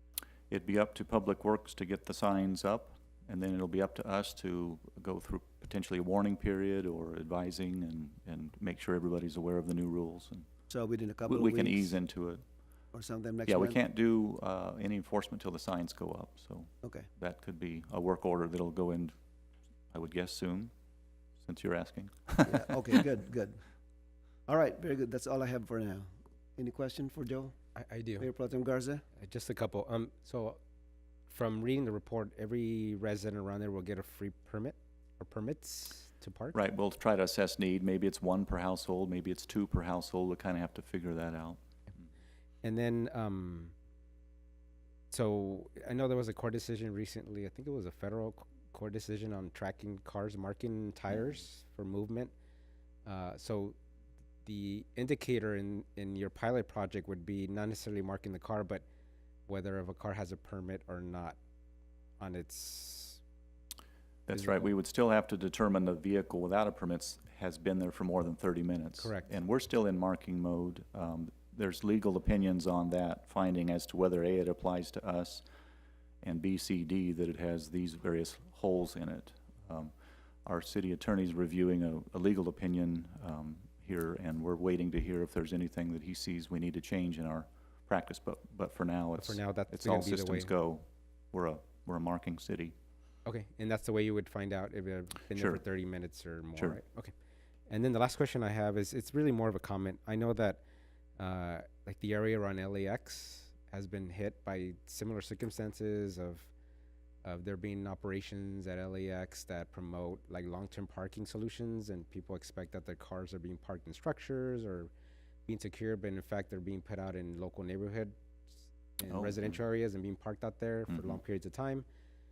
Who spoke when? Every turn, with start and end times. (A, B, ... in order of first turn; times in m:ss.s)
0:00.5-0:10.5 A
0:10.7-0:12.0 B
0:11.3-0:12.4 A
0:12.9-0:13.8 B
0:13.5-0:19.1 A
0:19.9-0:20.7 A
0:21.4-0:22.6 A
0:22.4-0:23.6 B
0:24.5-0:27.6 B
0:27.8-0:28.3 C
0:28.2-0:29.0 B
0:29.2-0:30.6 C
0:31.3-0:36.6 C
0:36.5-0:41.6 A
0:42.6-0:43.7 C
0:45.1-0:52.3 C
0:53.1-0:53.8 C
0:54.4-0:58.8 C
0:59.5-1:01.4 C
1:02.2-1:03.2 C
1:04.3-1:15.4 A
1:04.3-1:04.7 C
1:09.0-1:09.3 C
1:16.2-1:19.9 A
1:20.4-1:32.7 A
1:29.2-1:30.5 C
1:33.2-1:37.1 C
1:35.3-1:35.6 A
1:37.7-1:40.6 C
1:41.2-1:46.5 C
1:47.2-1:54.9 C
1:55.5-1:58.1 C
1:59.0-2:01.9 C
1:59.1-1:59.6 A
2:00.9-2:01.2 A